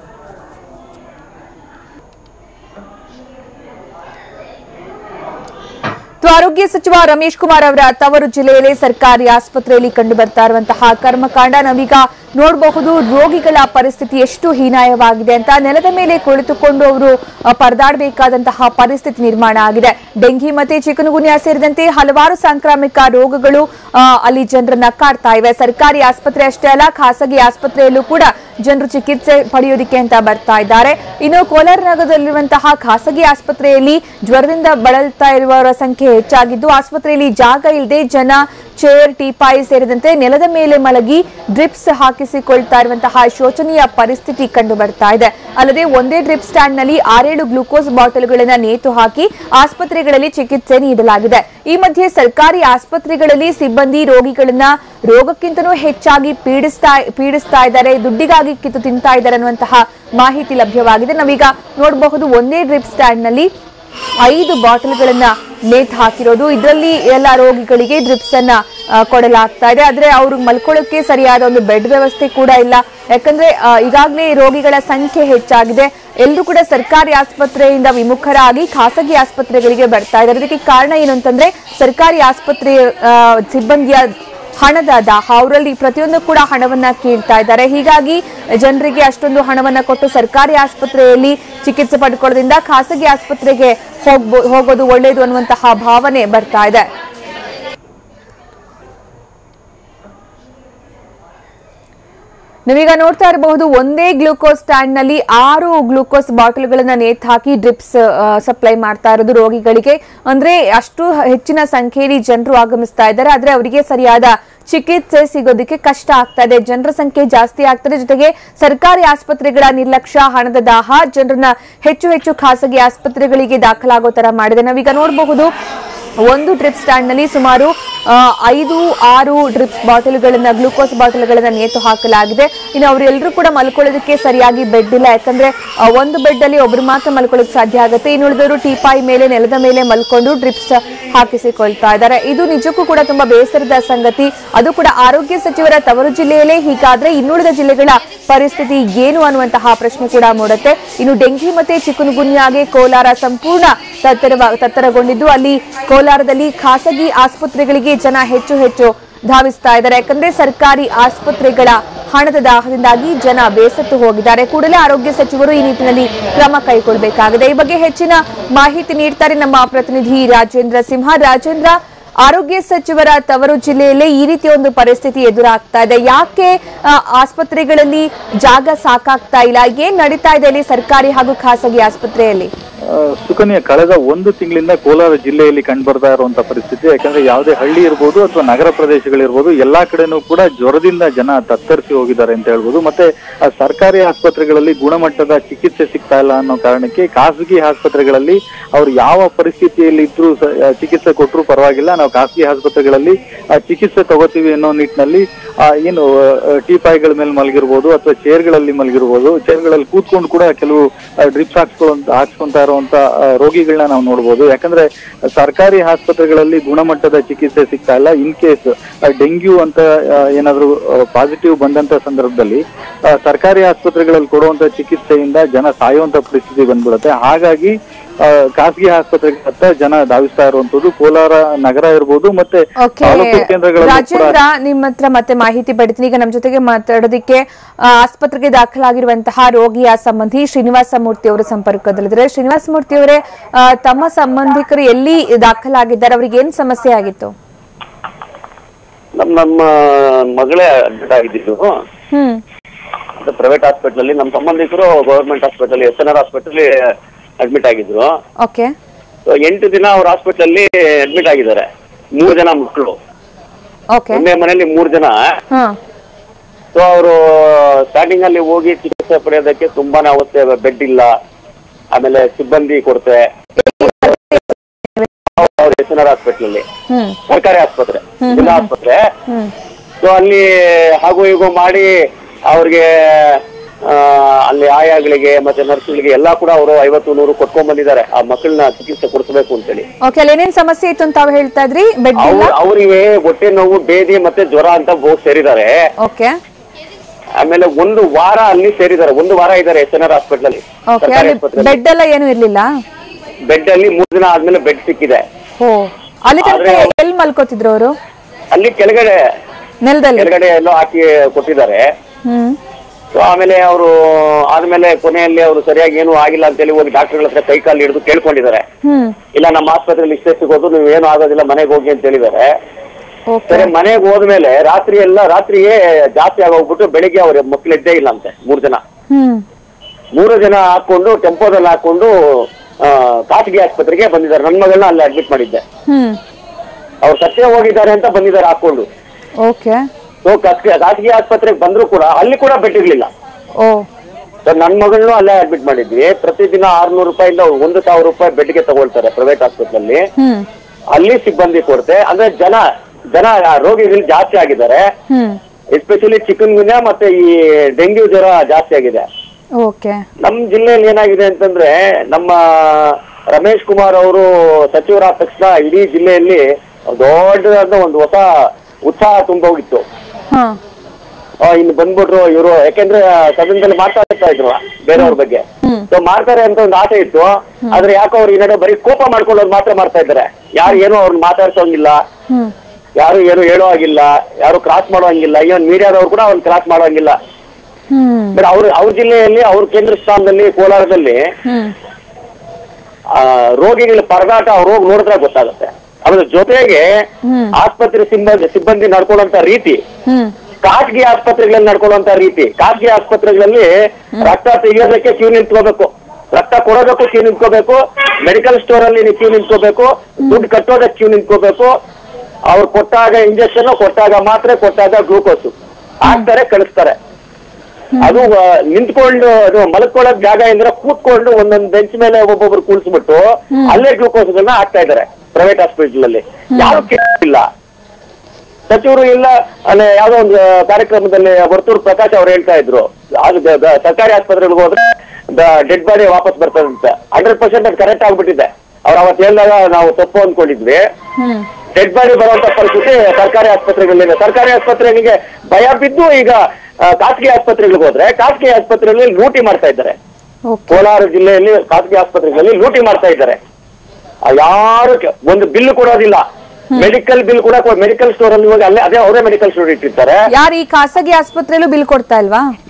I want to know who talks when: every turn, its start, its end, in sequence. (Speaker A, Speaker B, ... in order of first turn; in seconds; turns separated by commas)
Speaker A: 6.2-63.5, Speaker A: 64.2-96.9, Speaker A: 102.7-125.5, Speaker A: 126.3-182.5, Speaker B: 182.9-234.3, Speaker A: 232.8-247.3, Speaker C: 249.2-251.7, Speaker A: 252.1-252.4, Speaker C: 253.2-258.1, Speaker A: 258.4-258.7, Speaker C: 259.3-262.9, Speaker A: 263.9-264.2, Speaker C: 264.1-265.2, Speaker C: 266.7-271.1, Speaker C: 271.9-273.2, Speaker A: 273.6-275.1, Speaker C: 273.8-274.3, Speaker C: 275.4-276.6, Speaker A: 276.9-277.2, Speaker C: 277.3-279.0, Speaker A: 278.2-278.7, Speaker C: 280.0-281.9, Speaker C: 282.5-289.8, Speaker A: 290.0-292.5, Speaker C: 292.2-295.7, Speaker A: 296.0-296.3, Speaker C: 297.4-301.7, Speaker A: 300.9-302.7, Speaker C: 303.5-305.2, Speaker A: 305.6-307.9, Speaker C: 306.4-306.9, Speaker C: 308.5-309.2, Speaker A: 309.8-310.3, Speaker C: 310.2-311.8, Speaker A: 312.2-312.6, Speaker C: 313.1-318.6, Speaker A: 318.8-319.1, Speaker C: 319.3-322.5, Speaker A: 323.3-323.7, Speaker C: 323.5-328.8, Speaker A: 329.1-329.4, Speaker C: 330.1-335.6, Speaker A: 335.9-336.2, Speaker C: 337.0-338.8, Speaker A: 339.4-339.8, Speaker C: 340.2-343.1, Speaker A: 343.6-343.8, Speaker C: 344.4-350.0, Speaker A: 350.2-350.5, Speaker C: 350.9-354.8, Speaker A: 355.1-355.4, Speaker C: 355.7-359.0, Speaker A: 359.6-360.0, Speaker C: 360.2-369.8, Speaker A: 370.3-370.6, Speaker C: 371.4-382.0, Speaker A: 374.9-375.9, Speaker C: 383.0-387.1, Speaker A: 387.9-388.4, Speaker C: 388.3-391.2, Speaker A: 391.4-391.7, Speaker C: 393.1-396.9, Speaker A: 397.2-397.5, Speaker C: 397.6-399.8, Speaker A: 400.1-400.3, Speaker C: 400.6-403.7, Speaker C: 404.2-411.7, Speaker C: 412.5-416.9, Speaker A: 417.9-418.2, Speaker C: 418.0-427.4, Speaker A: 423.5-423.8, Speaker A: 426.5-426.8, Speaker C: 428.7-440.8, Speaker A: 441.2-441.4, Speaker C: 441.8-449.9, Speaker A: 450.4-450.8, Speaker C: 450.7-453.4, Speaker C: 454.3-456.2, Speaker C: 456.8-460.2, Speaker A: 460.3-462.5